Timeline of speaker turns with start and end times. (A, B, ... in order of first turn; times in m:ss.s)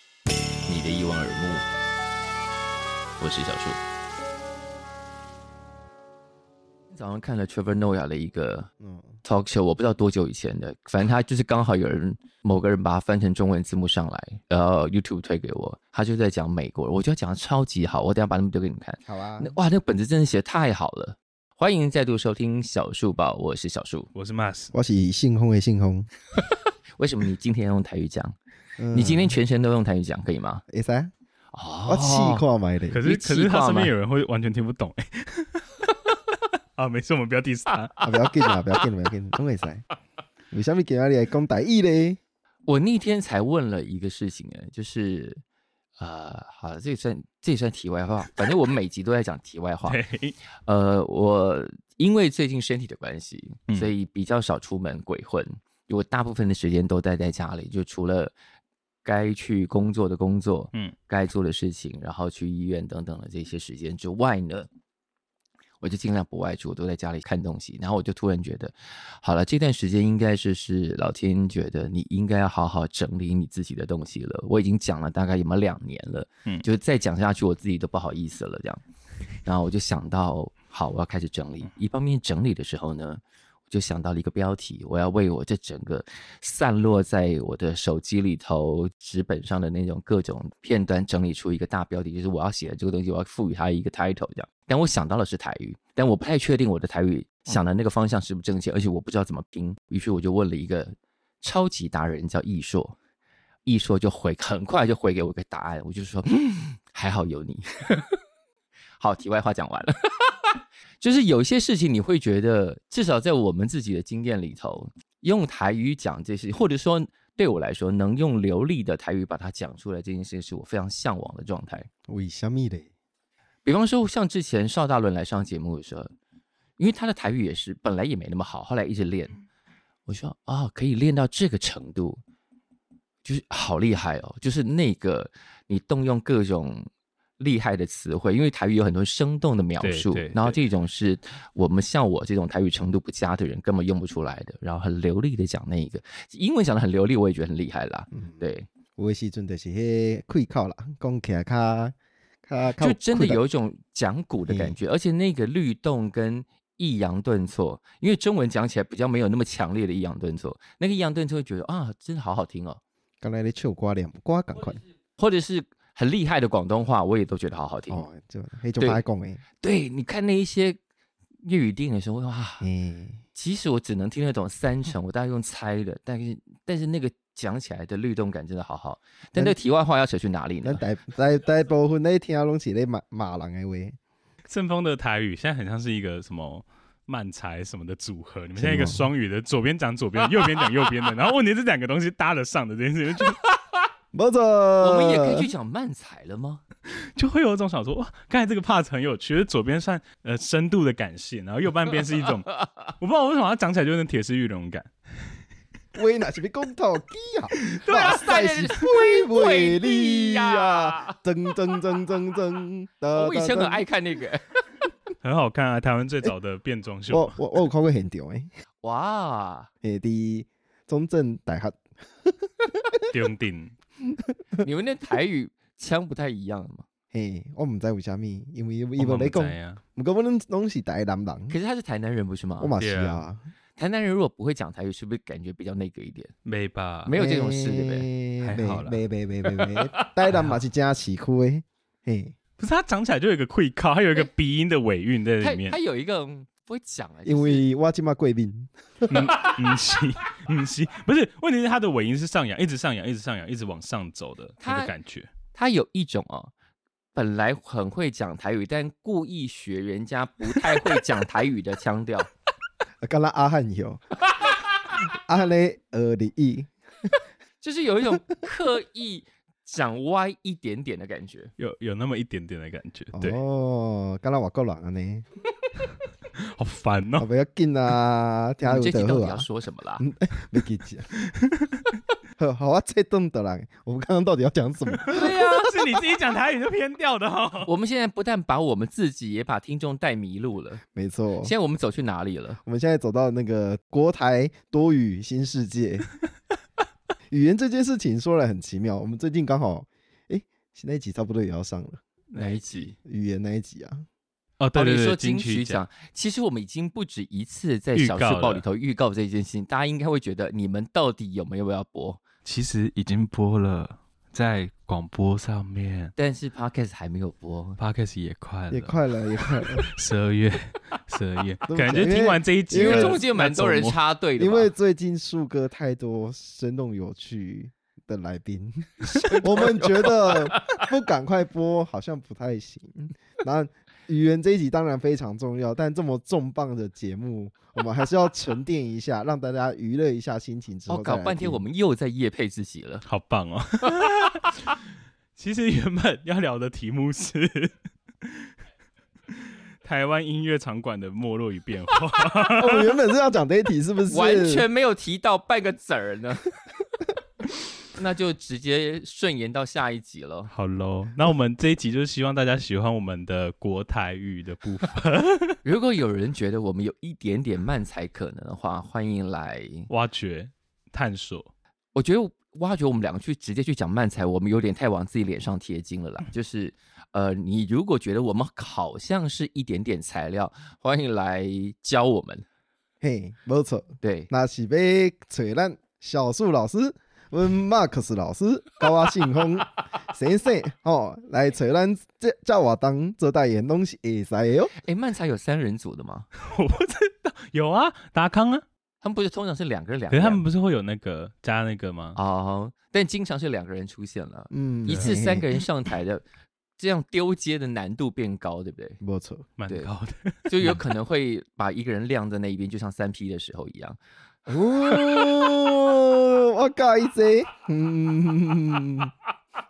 0:00.6-0:01.6 A
0:03.2-0:03.8 A
0:06.9-0:08.7 A
0:08.8-0:09.2 B
0:09.2-0:24.1 A
0:19.0-0:19.5 B
0:24.1-0:24.7 C
0:24.7-0:26.1 B
0:27.0-0:28.3 A
0:28.8-0:29.4 B
0:28.9-0:30.6 A
0:30.7-0:31.1 B
0:31.5-0:32.4 A
0:31.9-0:33.0 B
0:32.9-0:36.2 C
0:33.0-0:33.9 A
0:36.8-0:37.9 C
0:38.0-0:39.8 B
0:40.5-0:42.2 B
0:42.6-0:45.4 A
0:46.0-0:50.0 A
0:49.8-0:50.4 C
0:50.6-0:58.3 A
0:59.0-1:04.7 A
1:05.8-1:18.8 A
1:19.4-1:42.9 A
1:43.6-1:48.1 A
1:49.0-1:50.3 A
1:51.0-2:01.9 A
2:02.1-2:02.9 B
2:03.6-2:06.1 A
2:06.8-2:09.4 A
2:10.0-2:12.2 A
2:13.2-2:16.9 A
2:17.4-2:28.7 A
2:19.8-2:20.6 C
2:28.1-2:28.4 B
2:29.0-2:33.4 B
2:32.8-2:42.8 A
2:34.5-2:34.8 B
2:43.2-2:44.8 B
2:45.2-2:48.0 A
2:47.9-2:49.4 B
2:49.6-2:50.8 A
2:51.4-2:52.6 A
2:52.6-2:53.2 B
2:53.3-3:00.8 A
3:00.6-3:04.0 B
3:04.5-3:13.4 C
3:08.6-3:09.1 B
3:14.1-3:15.5 B
3:14.8-3:16.6 A
3:17.2-3:24.9 C
3:22.2-3:22.7 A
3:25.9-3:33.8 B
3:27.6-3:28.1 C
3:27.9-3:31.2 A
3:33.1-3:34.5 A
3:35.2-3:37.4 C
3:37.1-3:38.5 B
3:38.8-3:39.7 A
3:39.8-3:43.0 B
3:43.1-3:43.7 C
3:44.6-3:46.8 A
3:47.1-3:51.5 B
3:49.0-3:49.8 C
3:51.5-3:52.7 A
3:52.6-3:53.4 B
3:52.8-3:53.2 C
3:53.8-3:56.3 A
3:56.4-3:57.1 C
3:57.0-3:58.1 A
3:57.1-4:02.3 B
3:58.4-3:59.0 C
4:00.3-4:00.6 C
4:02.6-4:05.7 C
4:05.4-4:07.6 A
4:07.2-4:09.2 B
4:09.1-4:15.3 C
4:14.6-4:14.9 A
4:15.5-4:16.5 A
4:17.1-4:22.3 A
4:23.0-4:24.0 B
4:24.9-4:26.7 B
4:27.6-4:31.5 A
4:31.6-4:33.4 C
4:33.1-4:35.2 B
4:36.5-4:37.3 C
4:37.2-4:39.5 B
4:38.6-4:40.0 A
4:40.0-4:41.1 B
4:42.4-4:45.5 B
4:45.0-4:47.7 C
4:47.6-4:50.8 A
4:50.9-4:51.5 B
4:51.4-4:52.6 A
4:52.6-4:56.1 B
4:57.3-5:02.0 B
5:02.3-5:02.9 C
5:02.4-5:02.9 A
5:03.0-5:04.0 B
5:04.6-5:05.8 C
5:04.7-5:12.2 A
5:07.9-5:08.6 C
5:12.4-5:16.1 C
5:16.2-5:17.8 A
5:17.8-5:24.0 C
5:18.7-5:19.8 B
5:21.7-5:23.2 B
5:22.7-5:24.7 A
5:24.4-5:41.6 B
5:29.1-5:30.8 A
5:40.9-5:43.0 A
5:43.0-5:44.5 C
5:45.4-5:47.7 C
5:48.2-5:48.5 C
5:49.3-5:52.9 C
5:52.5-5:54.6 B
5:54.1-5:56.5 A
5:57.9-6:00.5 A
6:00.5-6:05.6 C
6:05.6-6:09.9 A
6:09.9-6:11.5 C
6:11.9-6:22.4 A
6:23.0-6:34.7 B
6:24.0-6:24.3 A
6:34.8-6:36.3 A
6:36.5-6:38.6 C
6:39.0-6:40.4 A
6:40.1-6:42.2 C
6:42.1-6:46.2 A
6:44.5-6:45.4 B
6:44.9-6:45.2 C
6:46.8-6:49.0 A
6:49.0-6:49.5 B
6:49.6-6:50.8 C
6:50.5-6:54.0 A
6:54.5-6:59.1 B
6:54.5-6:55.3 A